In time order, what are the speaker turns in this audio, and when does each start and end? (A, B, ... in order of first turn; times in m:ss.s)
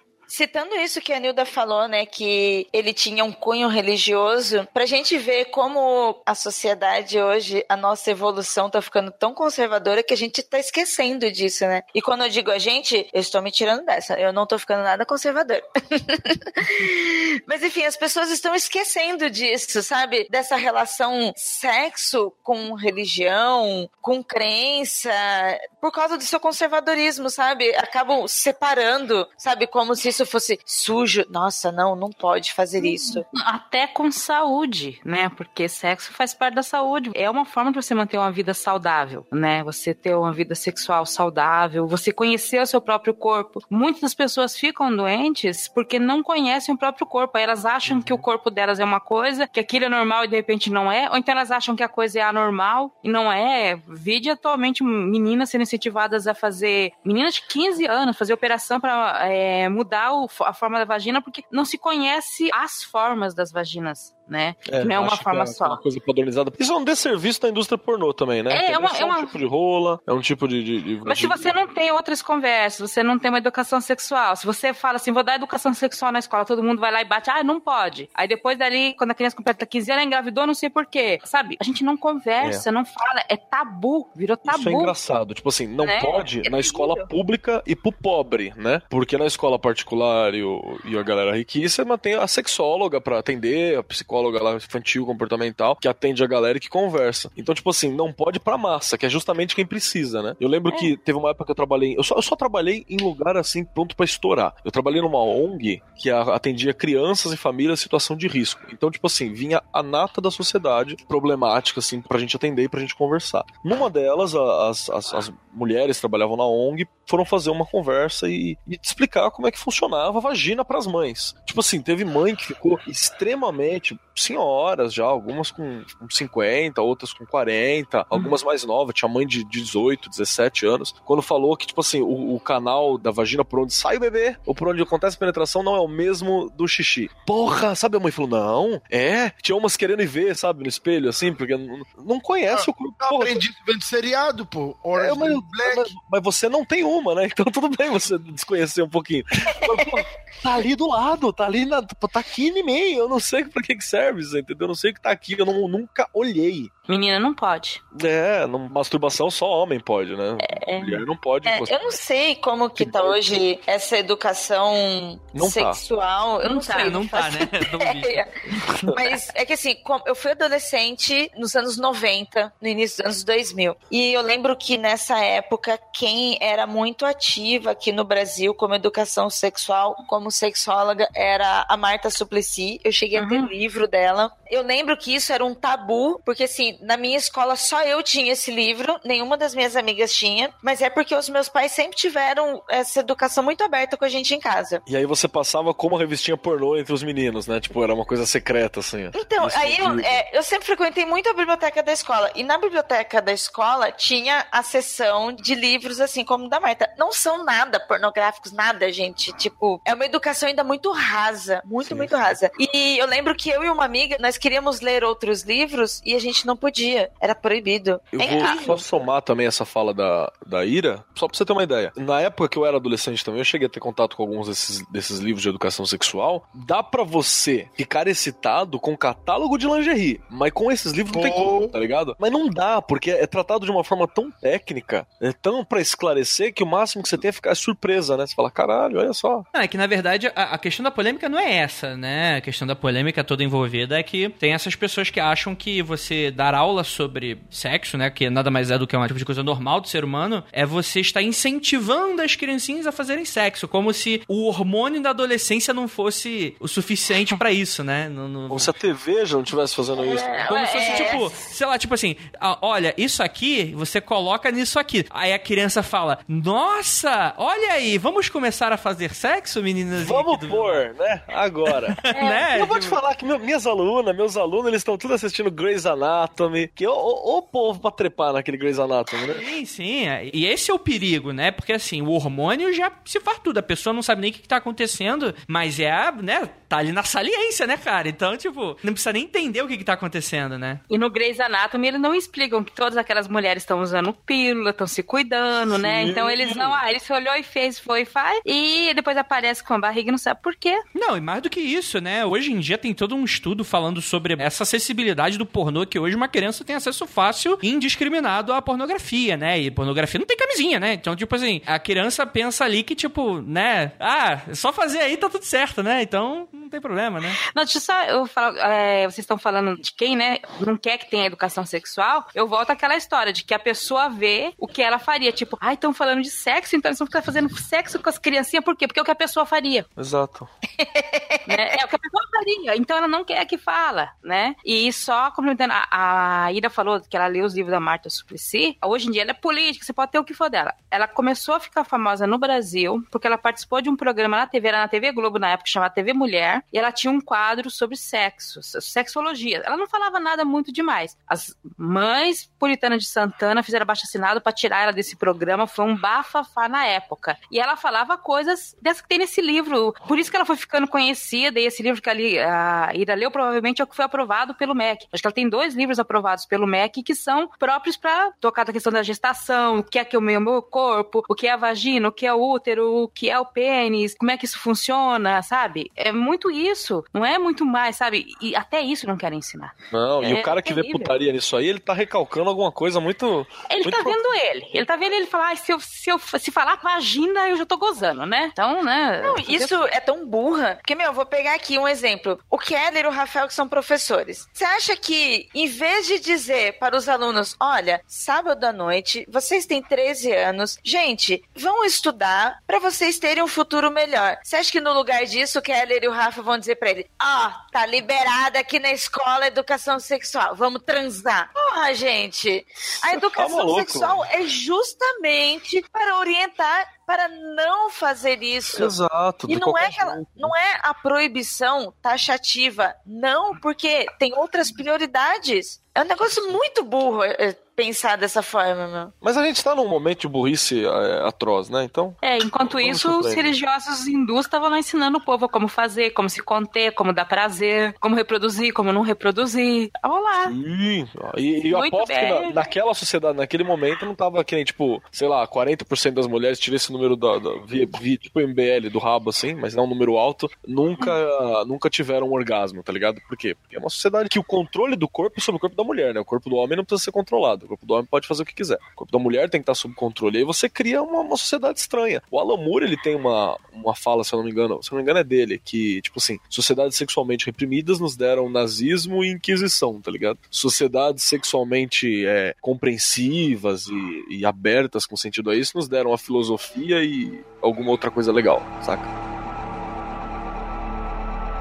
0:00.3-0:33.2 A
0:32.8-1:05.8 B
0:47.9-0:48.2 C
1:04.7-1:11.5 C
1:08.5-1:09.3 B
1:11.0-1:24.9 B
1:24.5-2:23.4 C
1:25.8-1:27.1 B
2:22.5-2:25.9 D
2:25.0-2:36.7 C
2:36.9-2:37.8 B
2:37.9-2:42.0 C
2:40.4-2:41.0 B
2:41.5-2:48.3 A
2:42.8-2:43.2 C
2:45.3-2:45.8 C
2:46.5-2:46.9 B
2:46.6-2:48.2 E
2:48.7-2:49.0 C
2:48.9-3:14.8 A
3:03.2-3:03.5 B
3:14.9-3:20.2 C
3:19.2-3:38.8 A
3:31.8-3:32.4 C
3:38.1-3:59.5 C
3:51.1-3:51.8 D
3:59.5-4:18.7 E
4:18.5-4:20.4 C
4:20.0-4:21.2 A
4:20.5-4:21.3 B
4:20.5-4:30.9 E
4:30.0-4:32.0 C
4:31.9-4:33.0 E
4:32.1-4:32.5 B
4:32.5-4:39.4 C
4:39.3-4:50.8 E
4:50.9-5:00.8 B
4:55.7-4:56.8 C
5:01.0-5:17.4 E
5:17.5-5:29.9 B
5:30.0-5:30.5 C
5:30.8-5:31.7 A
5:31.5-6:21.1 B
6:19.9-6:24.2 C
6:23.7-6:29.8 B
6:29.2-6:58.9 A
6:52.9-6:54.2 C
6:58.7-7:00.5 C
6:59.5-7:09.1 A
7:09.2-7:13.5 C
7:12.2-7:20.6 B
7:20.4-7:59.1 C
7:21.7-7:22.7 B